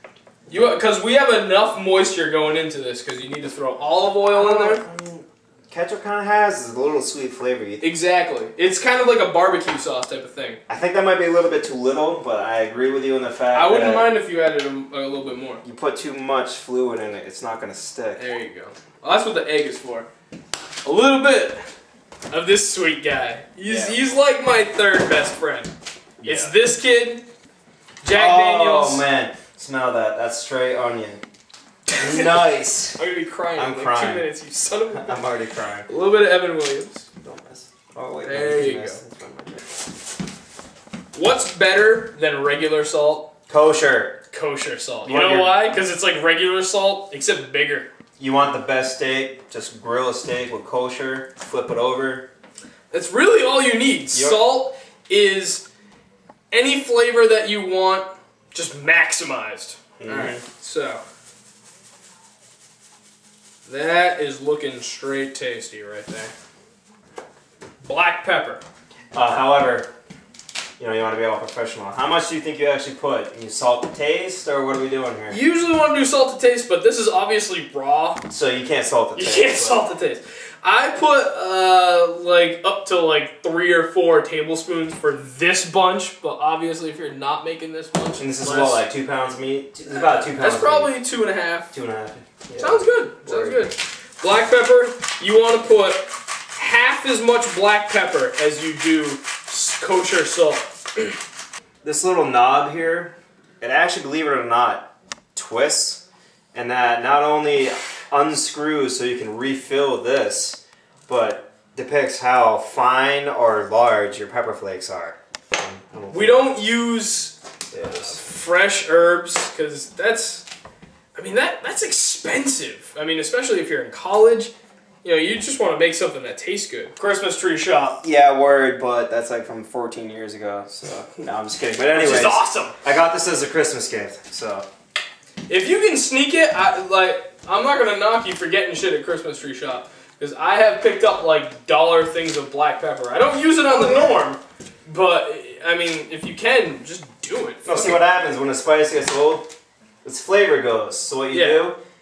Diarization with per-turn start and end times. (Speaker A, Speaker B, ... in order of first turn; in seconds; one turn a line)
Speaker A: 0.5-4.8
Speaker B: 4.3-7.8
Speaker A: 7.8-10.6
Speaker B: 10.7-14.1
Speaker A: 13.5-15.6
Speaker B: 15.6-18.2
Speaker A: 18.2-20.1
Speaker A: 20.8-21.7
Speaker A: 22.3-25.7
Speaker B: 23.6-24.0
Speaker B: 26.2-26.6
Speaker A: 26.2-27.2
Speaker A: 28.0-29.1
Speaker B: 28.1-31.2
Speaker B: 32.0-33.0
Speaker A: 32.0-32.4
Speaker A: 33.0-35.2
Speaker B: 33.6-34.3
Speaker B: 34.9-35.9
Speaker A: 35.9-37.1
Speaker B: 37.2-39.6
Speaker A: 38.2-39.0
Speaker A: 41.1-43.3
Speaker B: 43.5-44.2
Speaker A: 44.3-47.9
Speaker B: 45.0-45.8
Speaker B: 48.2-52.3
Speaker A: 52.9-55.7
Speaker B: 54.1-54.4
Speaker A: 56.5-61.0
Speaker B: 60.0-60.4
Speaker A: 63.7-66.3
Speaker A: 67.8-68.6
Speaker B: 69.1-69.9
Speaker B: 70.8-75.4
Speaker A: 75.3-78.2
Speaker B: 78.3-79.8
Speaker A: 79.2-88.8
Speaker B: 88.2-91.0
Speaker A: 89.9-91.7
Speaker B: 91.7-93.7
Speaker A: 92.6-101.2
Speaker B: 101.8-116.5
Speaker A: 116.1-120.5
Speaker B: 117.7-118.2
Speaker A: 121.2-124.5
Speaker A: 125.0-128.0
Speaker B: 128.0-134.7
Speaker A: 131.9-132.8
Speaker A: 135.5-148.0
Speaker B: 143.6-144.2
Speaker B: 147.6-149.5
Speaker B: 150.0-151.8
Speaker A: 151.3-151.7